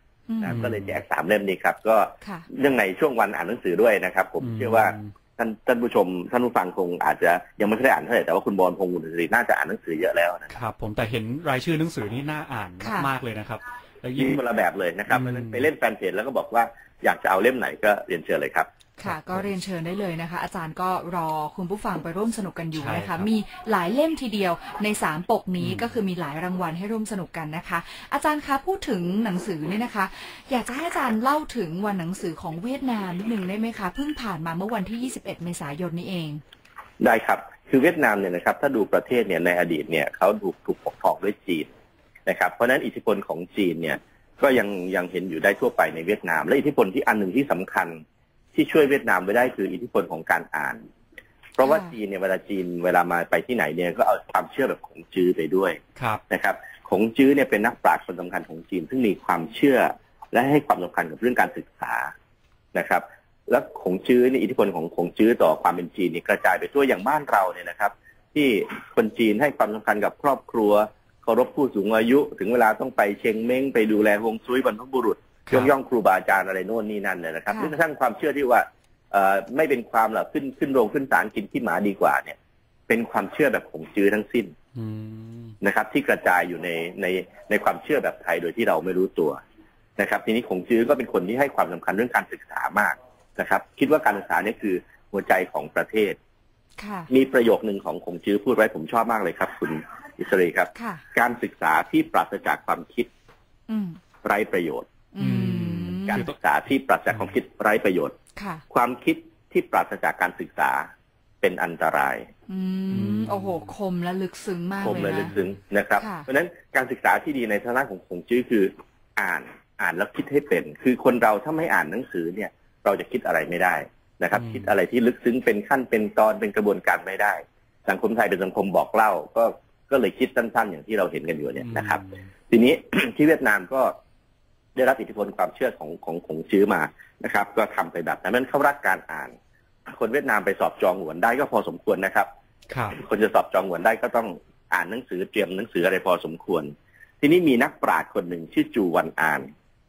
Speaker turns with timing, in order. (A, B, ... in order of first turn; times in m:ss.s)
0:00.3-0:00.6 A
0:00.4-0:10.6 B
0:00.4-0:01.0 C
0:04.4-0:05.1 C
0:10.5-0:14.4 C
0:12.8-0:13.1 A
0:14.2-0:18.7 B
0:15.1-0:15.6 C
0:19.0-0:36.4 A
0:19.0-0:19.5 C
0:22.8-0:23.3 C
0:25.6-0:25.9 C
0:37.0-0:41.7 B
0:42.2-0:48.0 B
0:48.5-0:50.8 B
0:51.6-1:02.1 B
0:51.6-0:51.9 A
1:02.7-1:22.4 B
1:15.5-1:15.7 C
1:17.5-1:17.8 A
1:22.9-1:24.5 B
1:24.7-1:25.5 C
1:25.6-1:29.4 B
1:30.0-1:36.2 B
1:36.8-1:37.1 A
1:37.1-1:43.1 B
1:40.7-1:41.0 A
1:43.7-1:44.0 A
1:44.2-1:44.9 B
1:45.1-1:46.2 A
1:45.2-1:46.3 C
1:46.1-1:48.1 B
1:48.3-1:48.6 A
1:48.7-1:50.9 B
1:51.4-1:52.3 B
1:52.5-1:55.3 A
1:52.9-1:53.7 C
1:54.8-2:13.9 B
1:55.0-1:55.4 C
1:56.0-1:56.3 A
2:04.4-2:04.7 C
2:11.6-2:12.1 C
2:14.7-2:19.4 B
2:19.9-2:22.3 B
2:22.7-2:23.0 C
2:22.9-2:29.5 B